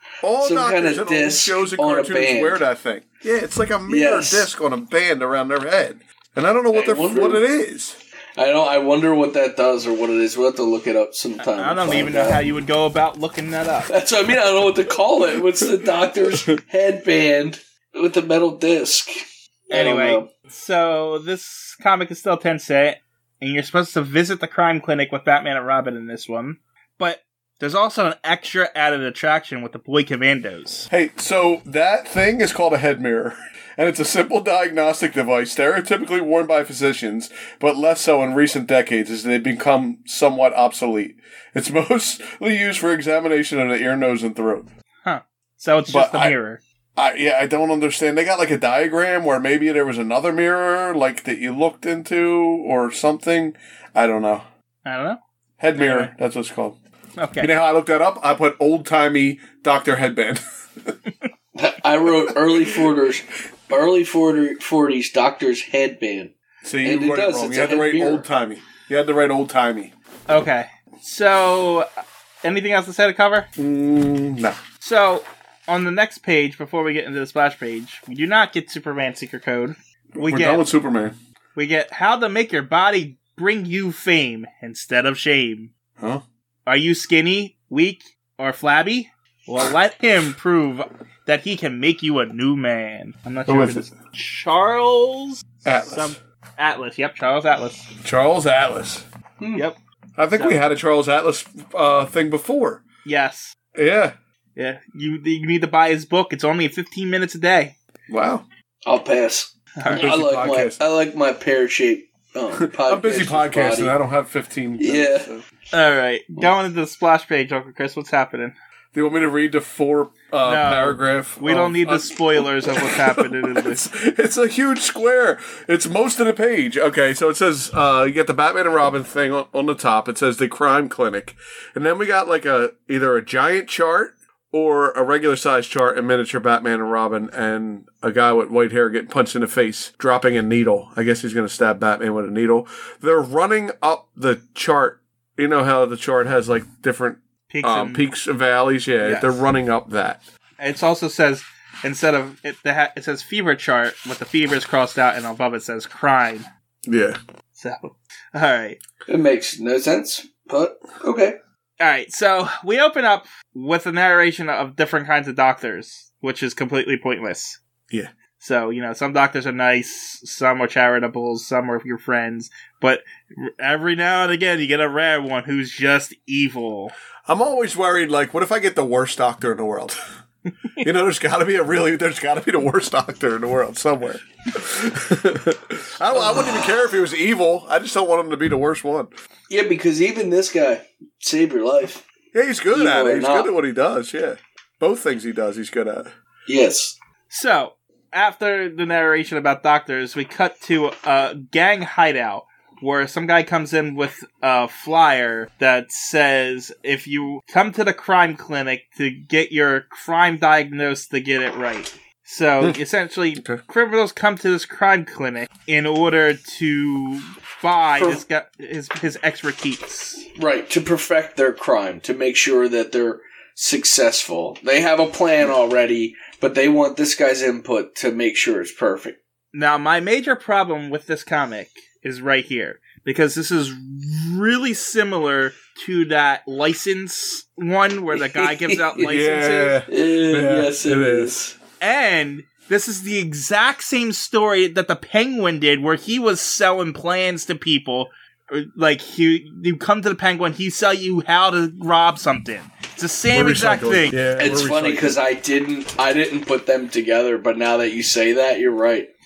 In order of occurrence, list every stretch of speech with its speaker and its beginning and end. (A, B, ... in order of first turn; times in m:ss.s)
0:00.2-0:08.0 A
0:00.4-0:02.6 B
0:03.9-0:04.5 B
0:06.7-0:07.4 B
0:08.4-0:12.4 B
0:11.4-0:13.9 C
0:13.9-0:19.2 B
0:19.7-0:20.3 B
0:19.7-0:30.9 C
0:30.9-0:44.7 A
0:45.0-0:46.6 C
0:45.9-0:46.3 A
0:47.0-0:54.4 A
0:54.8-0:55.2 C
0:55.6-0:56.8 A
0:55.8-0:56.1 C
0:57.2-0:57.5 C
0:57.4-1:01.0 A
1:01.6-1:08.3 B
1:06.6-1:09.9 A
1:10.3-1:11.9 C
1:12.4-1:13.5 C
1:13.6-1:14.6 A
1:14.8-1:20.7 C
1:20.2-1:21.2 A
1:21.6-1:25.7 C
1:26.0-1:26.2 A
1:26.7-1:37.9 C
1:33.5-1:33.9 A
1:35.6-1:36.2 A
1:38.0-1:39.0 A
1:39.4-1:39.6 B
1:40.2-1:42.8 A
1:40.4-1:40.6 C
1:43.1-1:43.6 C
1:43.8-1:44.2 A
1:44.6-1:47.8 C
1:48.1-1:48.4 A
1:48.8-1:53.9 B
1:49.8-1:50.1 C
1:49.9-1:50.8 A
1:52.6-1:55.4 A
1:54.8-1:55.3 B
1:55.7-1:58.6 C
1:58.9-2:30.2 A
2:00.4-2:03.9 C
2:27.5-2:28.1 C
2:29.0-2:29.4 C
2:30.6-2:36.5 C
2:36.9-2:37.2 A
2:37.6-2:38.8 C
2:39.1-2:41.4 B
2:41.8-2:47.6 C
2:48.4-2:56.9 C
2:57.3-3:00.0 A
3:00.8-3:09.1 A
3:06.1-3:06.7 B
3:09.5-3:12.0 B
3:12.3-3:16.1 A
3:12.7-3:13.5 B
3:16.5-3:17.0 B
3:17.3-3:40.3 C
3:40.4-3:49.2 B
3:49.5-3:59.8 C
3:58.2-3:59.1 B
3:59.0-4:01.3 A
3:59.9-4:01.6 B
4:01.8-4:14.2 C
4:13.3-4:15.2 A
4:14.4-4:19.1 B